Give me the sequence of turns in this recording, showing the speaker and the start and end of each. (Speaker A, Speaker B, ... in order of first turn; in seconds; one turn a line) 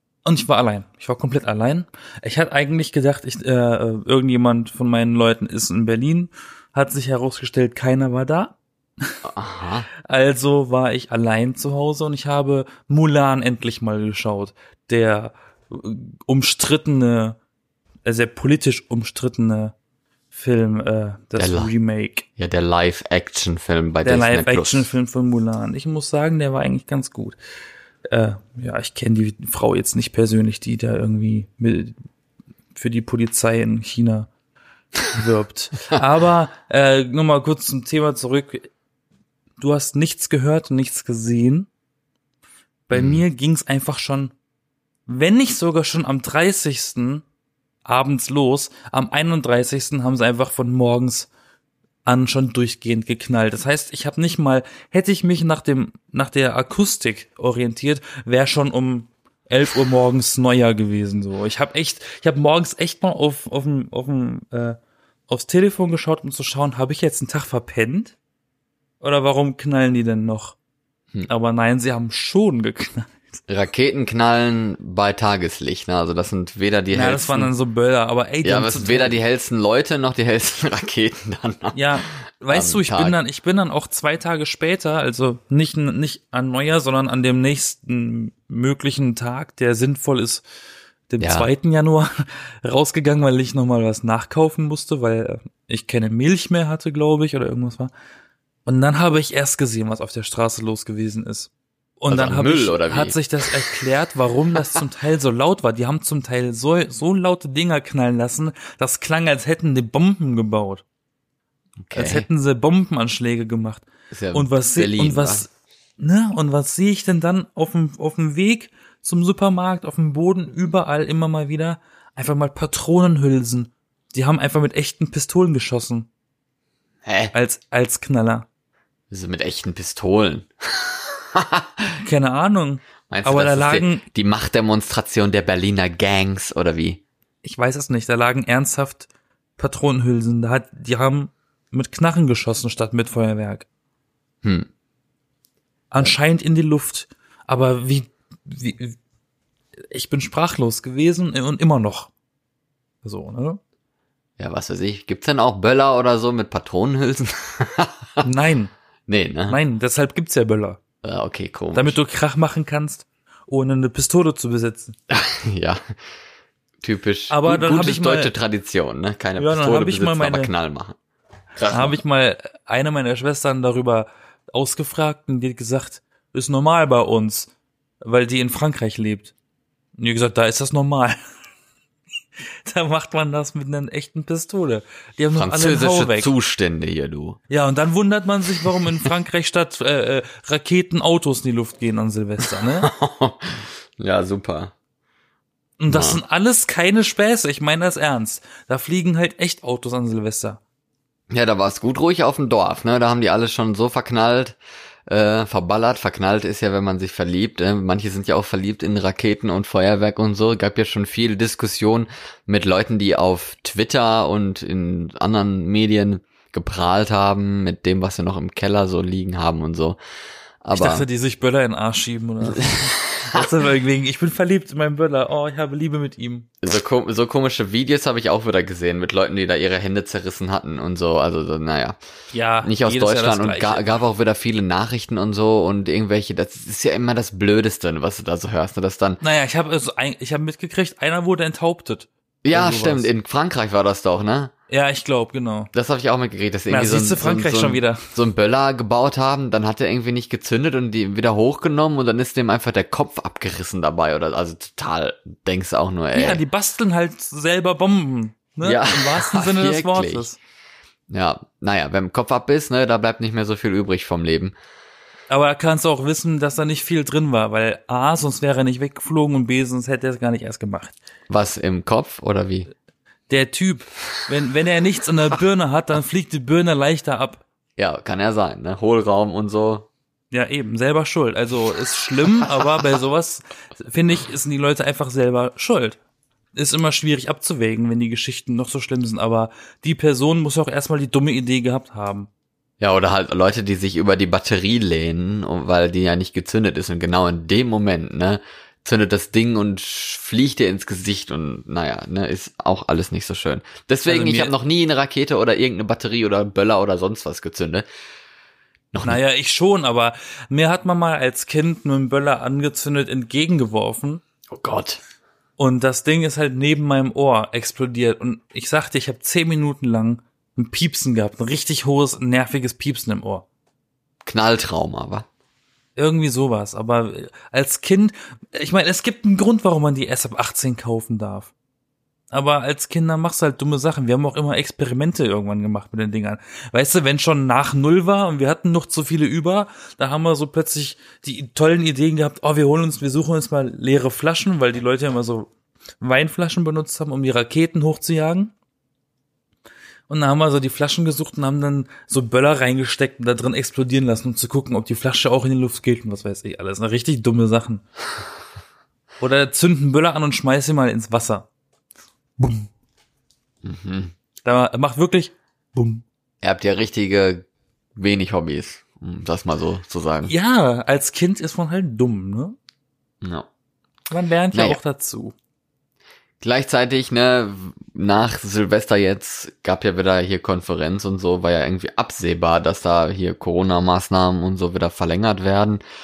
Speaker A: 0.2-9.2
Speaker B: 9.2-9.9
Speaker A: 10.1-17.4
Speaker A: 18.1-19.7
Speaker A: 20.3-22.3
Speaker B: 21.4-21.7
Speaker B: 22.4-24.9
Speaker A: 24.0-27.4
Speaker A: 28.1-31.9
Speaker A: 32.8-34.3
Speaker A: 35.1-38.7
Speaker A: 39.6-41.7
Speaker A: 42.9-44.3
Speaker B: 42.9-43.2
Speaker A: 45.1-47.2
Speaker A: 47.9-51.3
Speaker A: 52.0-64.8
Speaker A: 65.3-68.2
Speaker A: 69.0-70.6
Speaker A: 71.3-73.2
Speaker B: 73.5-77.5
Speaker A: 76.9-79.2
Speaker B: 78.4-83.1
Speaker A: 81.7-90.4
Speaker A: 91.1-97.9
Speaker B: 91.2-91.5
Speaker A: 98.7-110.8
Speaker B: 102.1-103.5
Speaker B: 111.8-112.3
Speaker A: 112.0-126.1
Speaker B: 114.1-115.5
Speaker B: 127.0-127.3
Speaker A: 127.3-128.5
Speaker B: 129.1-132.0
Speaker A: 132.0-134.0
Speaker B: 133.1-137.0
Speaker A: 137.4-139.1
Speaker A: 139.6-143.7
Speaker B: 144.4-144.7
Speaker A: 145.9-149.0
Speaker A: 149.9-152.1
Speaker A: 153.0-153.6
Speaker B: 154.4-158.2
Speaker A: 158.2-158.7
Speaker B: 159.1-159.6
Speaker A: 159.5-160.8
Speaker B: 161.0-162.0
Speaker A: 161.7-164.9
Speaker B: 165.1-165.9
Speaker B: 166.8-171.0
Speaker A: 167.3-168.3
Speaker A: 169.4-170.5
Speaker B: 171.6-172.0
Speaker A: 171.7-177.5
Speaker A: 178.0-179.3
Speaker A: 180.0-181.2
Speaker A: 182.6-186.3
Speaker B: 185.3-187.4
Speaker A: 187.5-192.9
Speaker B: 192.8-194.7
Speaker A: 195.8-200.6
Speaker B: 195.9-196.2
Speaker B: 201.3-220.0
Speaker B: 220.6-221.1
Speaker A: 220.7-226.5
Speaker B: 222.6-223.5
Speaker B: 226.6-232.0
Speaker A: 232.3-233.9
Speaker B: 232.6-239.2
Speaker A: 239.2-243.1
Speaker B: 242.4-244.5
Speaker A: 244.7-245.7
Speaker B: 245.7-256.4
Speaker A: 246.7-248.0
Speaker A: 256.1-260.4
Speaker B: 258.6-260.3
Speaker B: 261.1-264.6
Speaker A: 265.3-270.9
Speaker B: 271.3-272.7
Speaker A: 273.3-277.4
Speaker B: 277.8-279.9
Speaker A: 280.3-286.0
Speaker A: 286.5-292.3
Speaker B: 292.8-307.9
Speaker A: 304.1-304.5
Speaker B: 308.9-309.2
Speaker A: 309.0-314.2
Speaker B: 314.5-315.0
Speaker A: 315.6-323.5
Speaker B: 324.2-325.3
Speaker A: 326.0-331.5
Speaker A: 332.3-345.5
Speaker A: 346.0-348.5
Speaker A: 350.1-357.8
Speaker A: 359.2-361.5
Speaker A: 362.4-362.7
Speaker B: 363.6-364.1
Speaker A: 364.4-366.0
Speaker B: 366.4-370.3
Speaker A: 370.3-372.6
Speaker B: 373.2-373.5
Speaker A: 374.1-375.3
Speaker B: 374.5-374.8
Speaker B: 376.4-385.8